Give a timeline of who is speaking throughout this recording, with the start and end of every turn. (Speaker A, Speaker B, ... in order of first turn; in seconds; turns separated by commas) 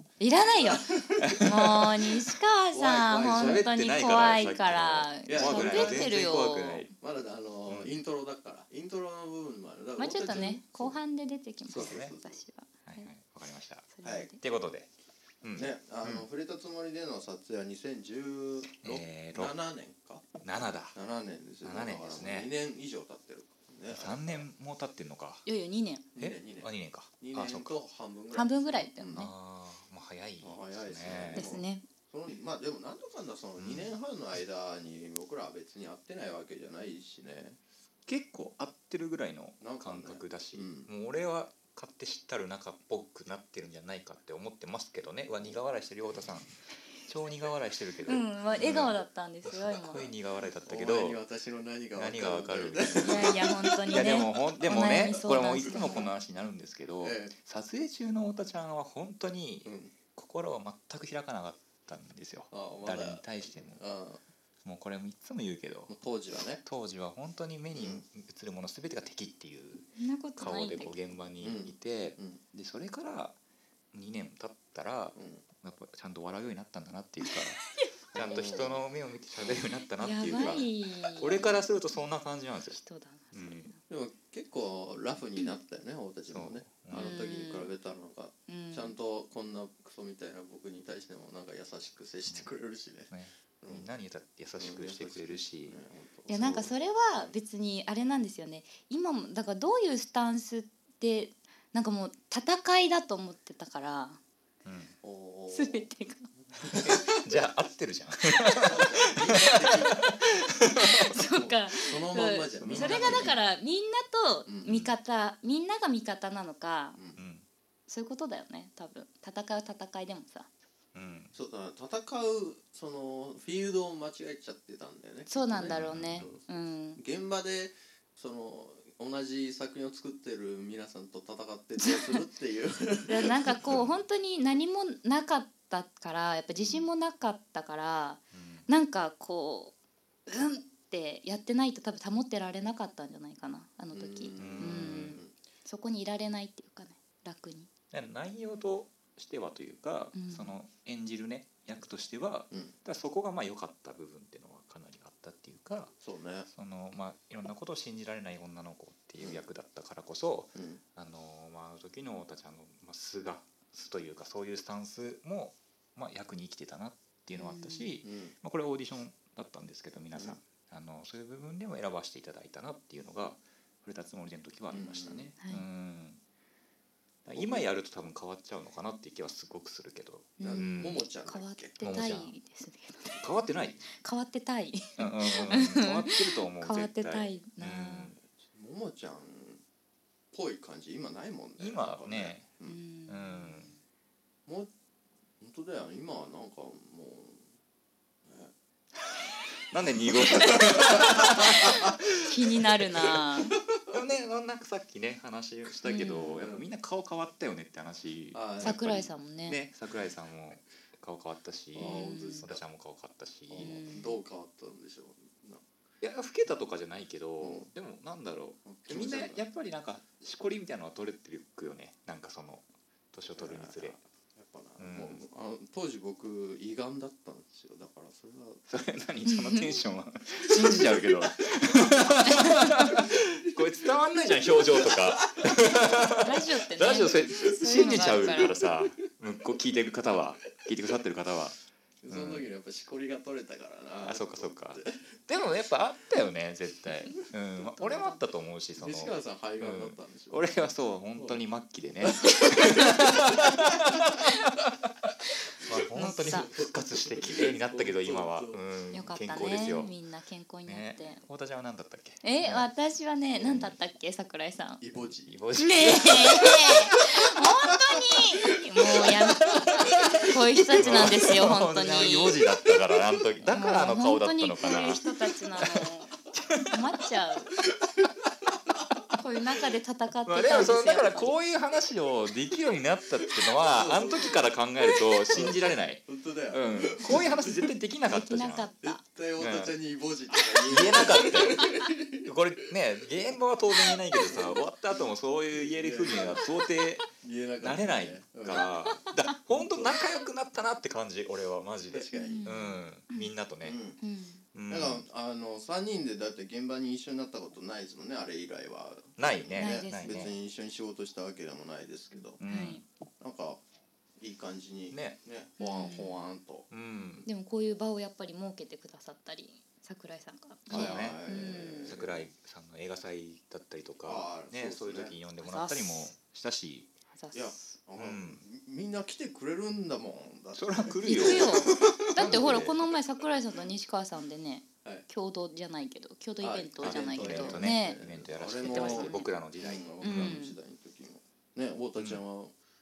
Speaker A: 0.2-6.9, Speaker B: 0.4-1.9, Speaker C: 1.2-1.9, Speaker B: 2.7-3.6, Speaker C: 3.2-6.9, Speaker B: 5.3-6.1, Speaker B: 7.0-11.0, Speaker C: 7.7-8.0, Speaker A: 10.0-13.1, Speaker C: 10.3-10.6, Speaker C: 11.7-12.1, Speaker B: 11.7-12.4, Speaker C: 12.9-14.9, Speaker A: 13.9-14.4, Speaker B: 14.0-14.3, Speaker C: 15.4-16.2, Speaker B: 15.5-24.4, Speaker C: 18.8-19.6, Speaker C: 20.4-21.0, Speaker C: 21.6-22.5, Speaker C: 23.9-25.5, Speaker A: 25.5-26.1, Speaker B: 26.1-29.3, Speaker C: 26.2-27.7, Speaker A: 28.3-29.3, Speaker C: 29.1-31.6, Speaker B: 30.4-37.6, Speaker A: 31.3-31.9, Speaker C: 33.6-33.9, Speaker C: 38.1-46.5, Speaker B: 39.6-40.9, Speaker C: 47.0-51.2, Speaker A: 48.0-50.1, Speaker B: 50.7-54.2, Speaker C: 52.0-63.8, Speaker A: 52.9-56.1, Speaker B: 55.6-56.0, Speaker B: 57.0-57.4, Speaker B: 59.6-59.9, Speaker B: 62.5-64.2, Speaker C: 64.6-65.9, Speaker B: 65.9-66.6, Speaker C: 66.6-73.4, Speaker B: 67.7-68.0, Speaker A: 70.0-71.0, Speaker B: 71.4-72.4, Speaker C: 73.9-82.8, Speaker B: 75.2-75.5, Speaker A: 77.3-78.7, Speaker B: 78.1-78.8, Speaker A: 80.0-81.7, Speaker A: 82.7-83.8, Speaker C: 83.3-83.7, Speaker B: 83.9-93.9, Speaker C: 86.3-87.2, Speaker A: 86.9-87.7, Speaker A: 88.5-89.0, Speaker C: 93.1-96.7, Speaker B: 94.6-96.4, Speaker A: 96.3-104.2, Speaker C: 104.7-104.9, Speaker B: 105.0-107.2, Speaker A: 105.5-106.3, Speaker C: 106.7-111.0, Speaker B: 108.6-113.4, Speaker A: 110.8-117.0, Speaker C: 112.6-113.4, Speaker B: 114.5-114.8, Speaker C: 114.7-115.0, Speaker B: 117.0-117.2, Speaker C: 117.2-117.5, Speaker A: 117.9-120.5, Speaker C: 120.9-121.3, Speaker B: 121.3-133.7, Speaker A: 125.3-127.0, Speaker C: 125.6-126.3, Speaker A: 131.8-132.2, Speaker A: 133.1-139.8, Speaker C: 133.6-134.1, Speaker C: 136.6-136.8, Speaker C: 138.3-138.7, Speaker A: 140.3-147.7, Speaker B: 143.9-145.3, Speaker C: 144.4-145.2, Speaker C: 147.9-155.9, Speaker A: 150.1-150.5, Speaker B: 156.0-156.5, Speaker C: 156.5-176.2, Speaker B: 160.6-160.8, Speaker A: 167.3-168.0, Speaker B: 168.0-168.3, Speaker B: 174.7-175.3, Speaker C: 177.2-181.0, Speaker B: 177.3-177.7, Speaker A: 180.4-183.3, Speaker B: 180.4-181.8, Speaker C: 181.8-182.3, Speaker C: 183.2-183.8, Speaker A: 183.8-188.2, Speaker C: 185.0-188.2, Speaker B: 188.3-189.6, Speaker B: 190.3-192.8, Speaker C: 191.6-192.5, Speaker A: 192.7-193.8, Speaker C: 193.1-193.7, Speaker B: 194.5-194.7, Speaker B: 195.4-197.5, Speaker B: 198.3-198.5, Speaker C: 199.7-203.1, Speaker A: 200.3-203.6, Speaker B: 200.3-201.9, Speaker C: 203.9-213.9, Speaker A: 205.8-206.4, Speaker B: 206.4-206.7, Speaker B: 208.3-209.0, Speaker A: 208.6-209.6, Speaker B: 211.8-212.6, Speaker A: 211.8-212.5, Speaker B: 213.5-215.7, Speaker A: 213.6-214.2, Speaker C: 216.0-224.0, Speaker B: 217.4-217.7, Speaker B: 218.7-219.4, Speaker B: 223.4-228.6, Speaker C: 224.8-225.2, Speaker C: 228.7-242.5, Speaker A: 229.2-229.8, Speaker A: 232.2-233.0, Speaker B: 232.9-235.9, Speaker A: 236.1-238.6, Speaker B: 237.3-238.8, Speaker B: 242.0-245.2, Speaker C: 244.0-254.3, Speaker A: 247.6-248.2, Speaker B: 248.8-251.4, Speaker B: 252.0-254.2, Speaker B: 255.6-258.6, Speaker C: 255.7-259.9, Speaker A: 255.9-256.6, Speaker A: 258.9-261.2, Speaker C: 260.7-262.7, Speaker A: 262.2-264.8, Speaker C: 263.4-263.8, Speaker B: 264.8-265.4, Speaker C: 265.3-267.1, Speaker A: 265.6-272.5, Speaker C: 268.9-275.0, Speaker A: 273.4-277.6, Speaker B: 274.6-275.3, Speaker C: 275.6-276.8, Speaker B: 277.9-278.9, Speaker A: 279.1-281.4, Speaker C: 280.3-288.7, Speaker B: 283.6-284.4, Speaker B: 285.2-287.7, Speaker A: 288.1-289.0, Speaker B: 288.8-292.3, Speaker C: 289.4-289.7, Speaker C: 290.4-297.1, Speaker B: 293.9-294.6, Speaker B: 295.5-298.7, Speaker C: 297.6-303.8, Speaker B: 299.5-300.2, Speaker B: 301.9-302.5, Speaker A: 302.1-303.3, Speaker B: 303.6-304.0, Speaker A: 304.0-304.4, Speaker C: 304.5-305.0, Speaker B: 304.7-312.4, Speaker C: 309.2-310.3, Speaker A: 309.6-310.3, Speaker C: 312.4-312.9, Speaker A: 312.4-312.8, Speaker B: 313.2-313.6, Speaker B: 314.2-316.7, Speaker C: 314.9-315.2, Speaker A: 315.6-316.3, Speaker C: 316.7-317.3, Speaker A: 317.2-321.9, Speaker C: 320.7-321.2, Speaker B: 320.7-322.3, Speaker C: 321.9-326.9, Speaker B: 324.0-325.1, Speaker A: 325.4-326.1, Speaker A: 327.1-327.8, Speaker B: 327.3-332.8, Speaker C: 328.0-328.4, Speaker C: 330.6-332.8, Speaker A: 331.0-338.0, Speaker B: 336.4-342.6, Speaker C: 336.8-340.4, Speaker A: 338.6-339.3, Speaker A: 340.0-340.6, Speaker C: 342.0-342.2